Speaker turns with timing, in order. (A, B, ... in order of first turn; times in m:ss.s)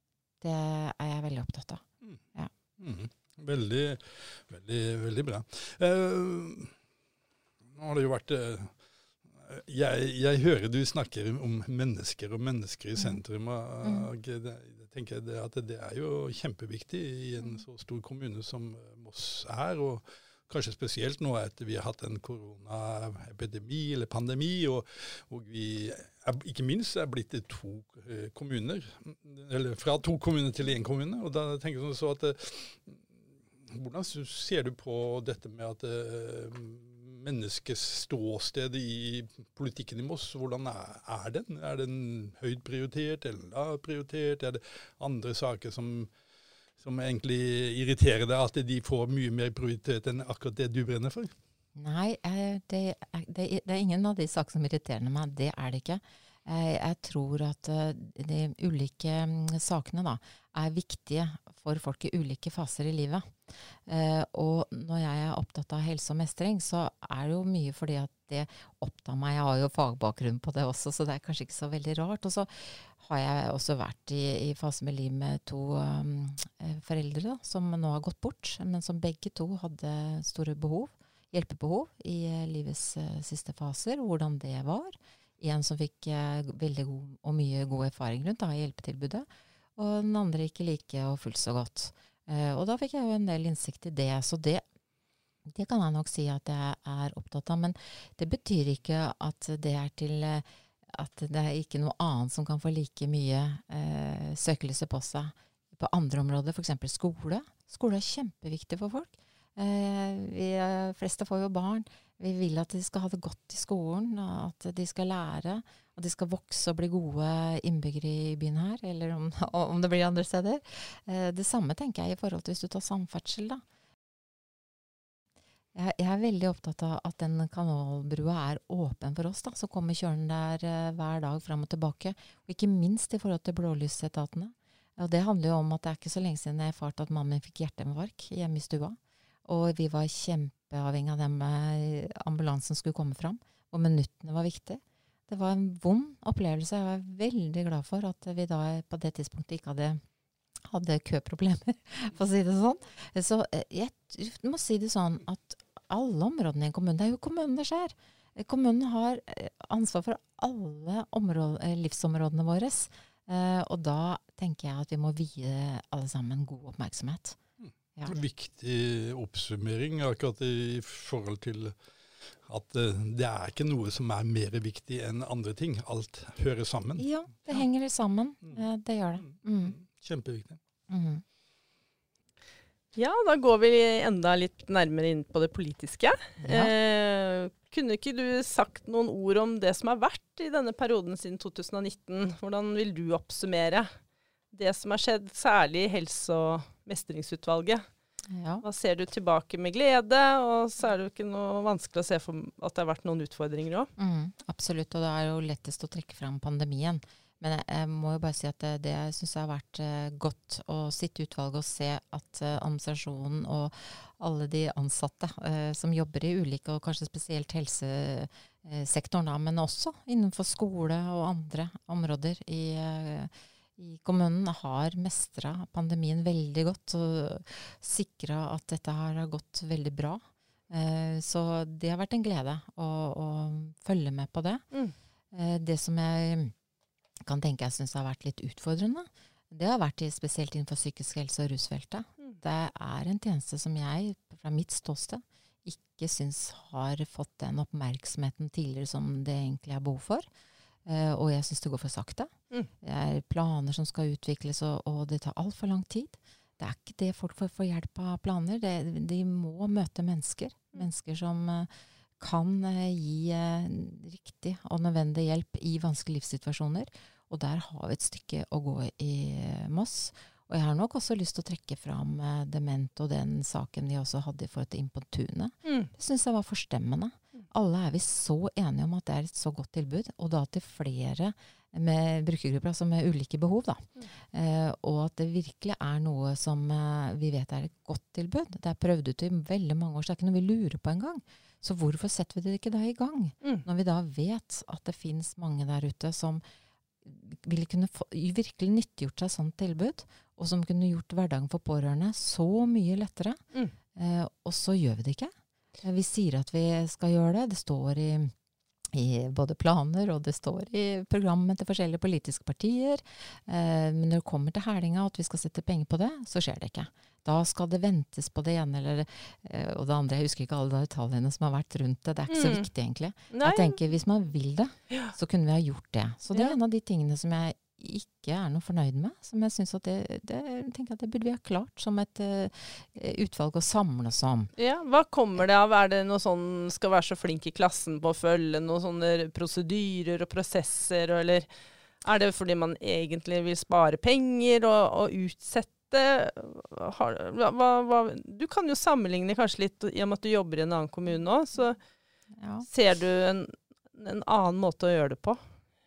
0:00.4-0:01.8 A
0:02.8-0:06.7 B
0:07.7-0:08.8 B
0:09.4-0:33.0 B
0:13.0-0:13.2 A
0:13.8-0:14.1 A
0:33.7-0:46.1 B
0:46.8-0:51.3 B
0:51.8-1:29.2 A
1:29.8-1:34.6 A
1:35.5-2:03.6 A
2:05.8-2:30.0 A
2:30.6-2:47.4 A
2:47.6-2:51.8 B
2:52.4-2:57.6 B
2:57.0-2:59.8 A
2:59.2-3:00.6 B
3:00.9-3:01.2 A
3:03.0-3:13.9 C
3:06.4-3:06.7 A
3:14.5-3:17.9 C
3:18.3-3:18.6 A
3:18.6-3:23.9 C
3:24.0-3:54.6 A
3:55.3-3:56.5 A
3:57.2-4:10.3 A
4:10.8-4:12.3 A
4:12.8-4:21.7 A
4:22.2-4:56.4 A
4:35.6-4:35.9 C
4:57.0-5:03.4 A
5:04.0-5:08.3 A
5:08.9-5:34.5 A
5:22.3-5:22.7 C
5:23.3-5:23.8 C
5:34.6-5:41.5 C
5:42.0-5:51.8 C
5:52.4-5:52.7 A
5:52.6-5:55.4 C